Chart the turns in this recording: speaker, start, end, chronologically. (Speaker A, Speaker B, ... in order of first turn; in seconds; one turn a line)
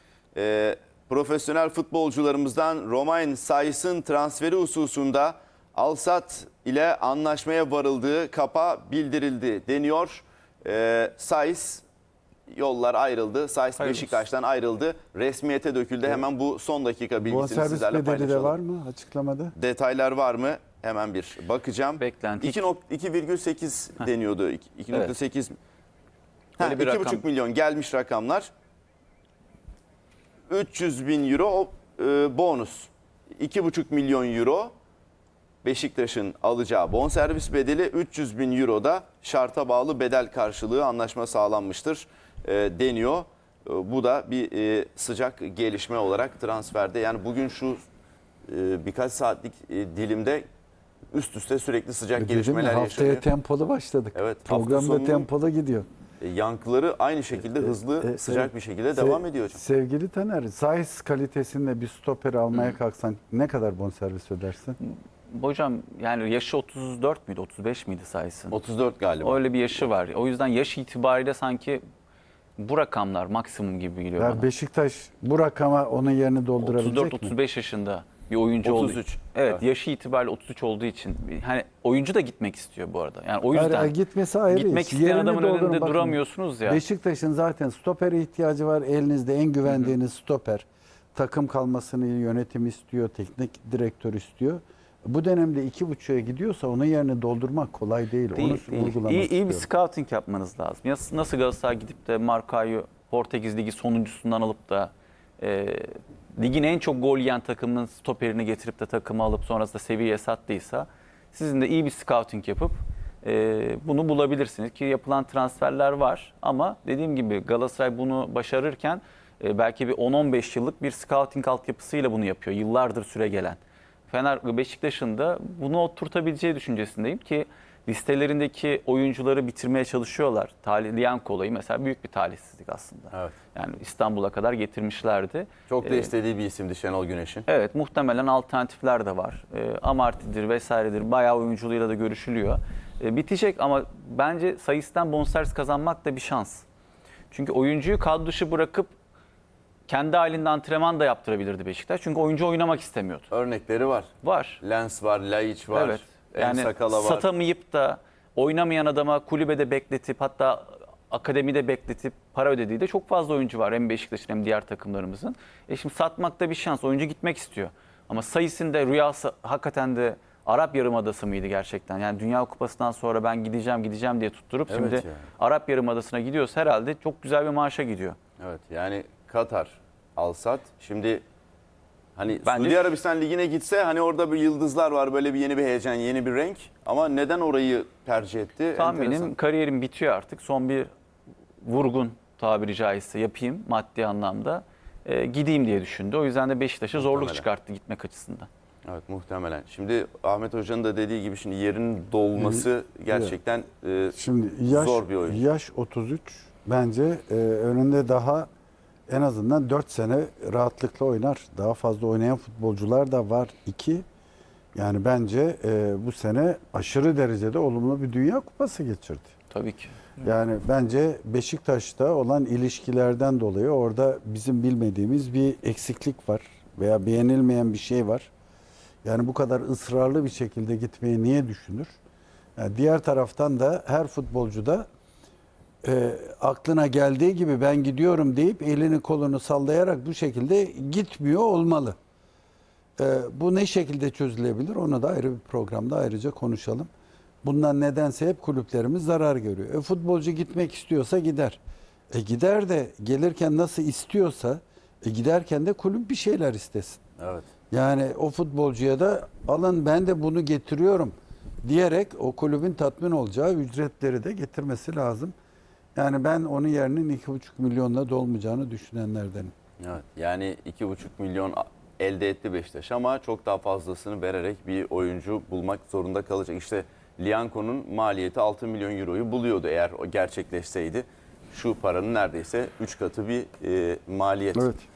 Speaker A: 0.3-11.8
Speaker A: 12.5-18.6
Speaker B: 13.8-14.2
Speaker C: 17.2-19.5
Speaker A: 19.5-25.6
Speaker B: 22.0-22.7
Speaker B: 26.6-27.2
Speaker A: 26.6-28.5
Speaker A: 30.5-34.7
Speaker A: 35.6-47.8
Speaker A: 48.5-50.4
Speaker A: 51.1-53.2
Speaker C: 52.1-55.9
Speaker A: 54.1-55.3
Speaker A: 56.2-59.6
Speaker C: 57.6-64.8
Speaker B: 65.3-68.6
Speaker A: 68.5-69.4
Speaker B: 69.2-71.8
Speaker B: 72.6-74.5
Speaker C: 74.2-77.3
Speaker B: 76.6-84.0
Speaker A: 78.6-79.6
Speaker C: 83.5-99.7
Speaker B: 84.5-86.8
Speaker B: 89.7-89.9
Speaker B: 98.3-123.6
Speaker B: 124.1-136.1
Speaker A: 135.7-137.4
Speaker B: 137.5-146.6
Speaker B: 147.3-148.9
Speaker B: 149.9-153.3
Speaker A: 153.3-157.2
Speaker B: 154.2-154.6
Speaker B: 155.7-178.2
Speaker A: 174.7-175.2
Speaker A: 178.4-181.2
Speaker A: 182.2-189.3
Speaker B: 182.4-182.9
Speaker B: 188.8-190.9
Speaker B: 191.6-198.5
Speaker A: 197.0-197.4
Speaker A: 198.8-205.4
Speaker C: 202.3-203.3
Speaker C: 204.1-208.5
Speaker C: 209.1-214.0
Speaker C: 214.7-219.3
Speaker B: 219.5-219.9
Speaker C: 220.2-228.3
Speaker C: 229.0-231.9
Speaker C: 232.6-234.9
Speaker C: 235.8-241.9
Speaker C: 243.0-246.9
Speaker C: 247.4-251.6
Speaker C: 252.1-257.0
Speaker A: 257.2-257.5
Speaker C: 257.7-265.3
Speaker C: 265.9-269.5
Speaker A: 269.8-284.7
Speaker C: 284.5-284.8